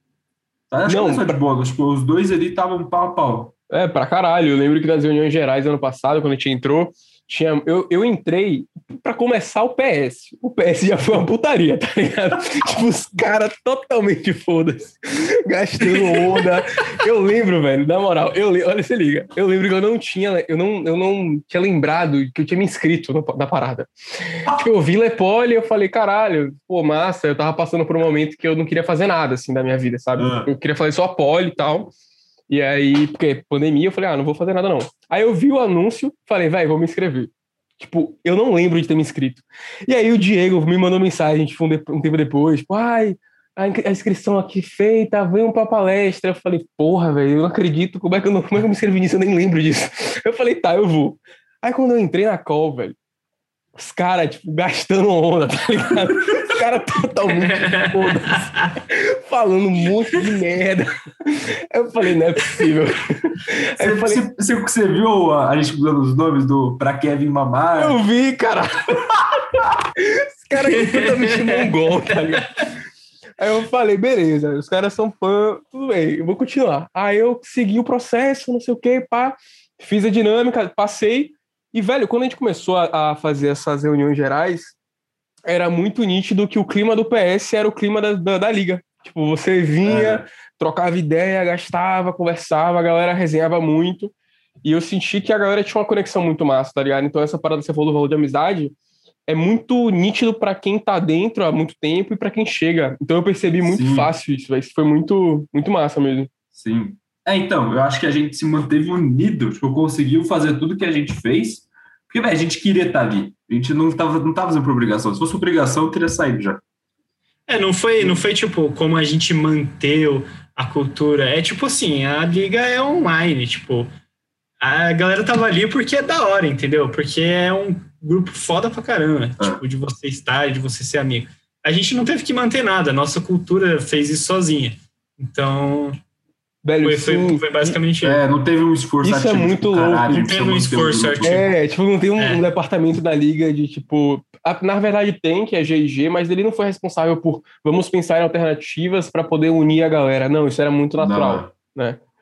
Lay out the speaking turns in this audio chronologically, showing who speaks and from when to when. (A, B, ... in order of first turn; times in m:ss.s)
0:00.7-0:03.5 A
0:00.8-0:01.4 B
0:03.7-0:31.9 B
0:30.2-0:30.5 A
0:32.5-0:53.0 B
0:53.8-1:04.2 B
0:57.5-0:58.7 C
1:03.8-1:08.0 A
1:07.8-1:09.1 B
1:10.0-1:12.5 B
1:10.6-1:11.7 C
1:13.4-1:24.7 B
1:25.5-1:34.1 B
1:29.8-1:30.2 A
1:34.6-1:38.7 B
1:39.3-1:46.3 B
1:43.6-1:44.1 A
1:46.5-1:56.6 A
1:57.5-2:03.9 C
2:04.6-2:16.0 C
2:16.6-2:17.7 B
2:16.8-2:18.2 C
2:18.0-2:21.4 A
2:19.0-2:20.3 B
2:20.1-2:21.4 C
2:21.2-2:32.0 B
2:22.2-2:22.4 C
2:31.0-2:31.5 A